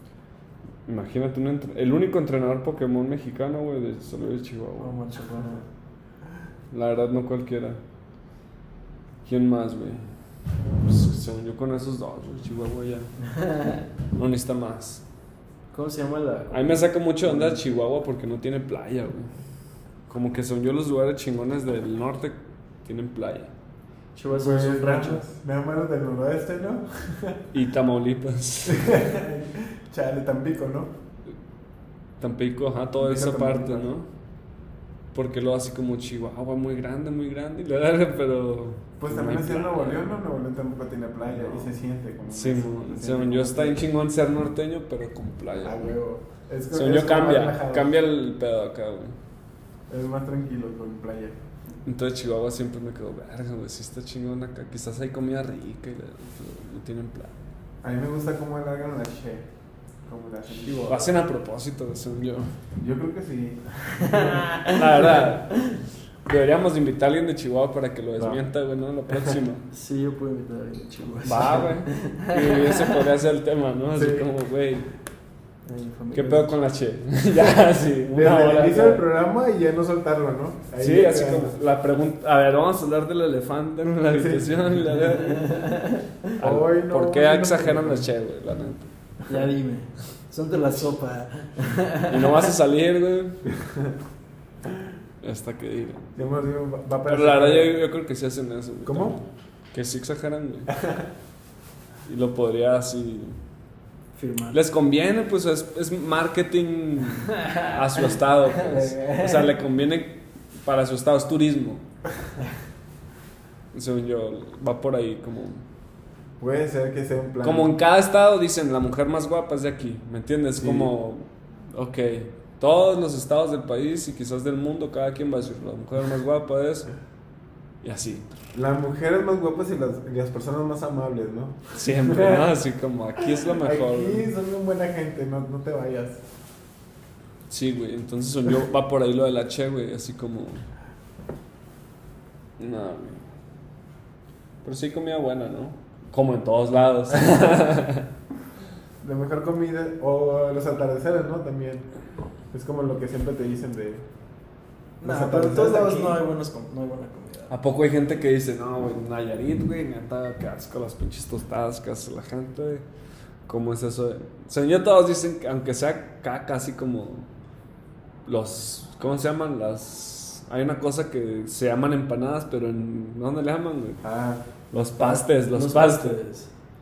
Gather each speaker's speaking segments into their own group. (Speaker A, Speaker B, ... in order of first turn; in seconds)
Speaker A: 0.8-4.9, 6.7-7.8, 9.2-10.1, 10.8-13.3, 14.1-15.0, 16.5-19.3, 20.1-23.5, 27.5-29.0, 32.2-34.1, 35.1-40.1, 41.3-41.7, 42.3-45.9, 46.7-49.1, 51.8-57.3, 60.9-62.5, 64.6-65.7, 66.2-69.6, 71.2-74.9, 76.1-79.0, 80.8-85.5, 86.4-88.9, 92.1-93.4, 95.2-96.0, 97.1-100.7, 102.0-103.4, 104.5-111.8, 113.7-115.6, 117.4-126.9, 127.8-128.3, 131.7-134.2, 137.5-140.6, 142.6-143.3, 144.6-148.1, 157.5-162.8, 163.5-167.3, 168.2-174.0, 174.7-176.2
Speaker B: 4.8-5.7, 15.7-17.7, 24.1-25.2, 60.6-61.0, 64.0-64.8, 69.7-73.0, 75.7-76.5, 85.3-86.0, 89.3-92.5, 104.1-104.6, 108.7-109.5, 155.0-157.5, 175.0-176.5
Speaker C: 24.3-27.4, 28.7-30.9, 33.0-33.9, 39.0-43.8, 45.6-47.9, 49.9-51.4, 57.8-59.5, 60.0-61.1, 62.8-64.5, 68.2-68.4, 73.9-74.3, 78.1-81.5, 84.1-85.1, 86.4-88.1, 96.2-97.8, 98.8-99.2, 116.4-117.7, 120.6-120.9, 128.5-132.5, 133.5-136.2, 149.0-151.9, 152.5-154.0, 155.0-156.2, 174.0-174.4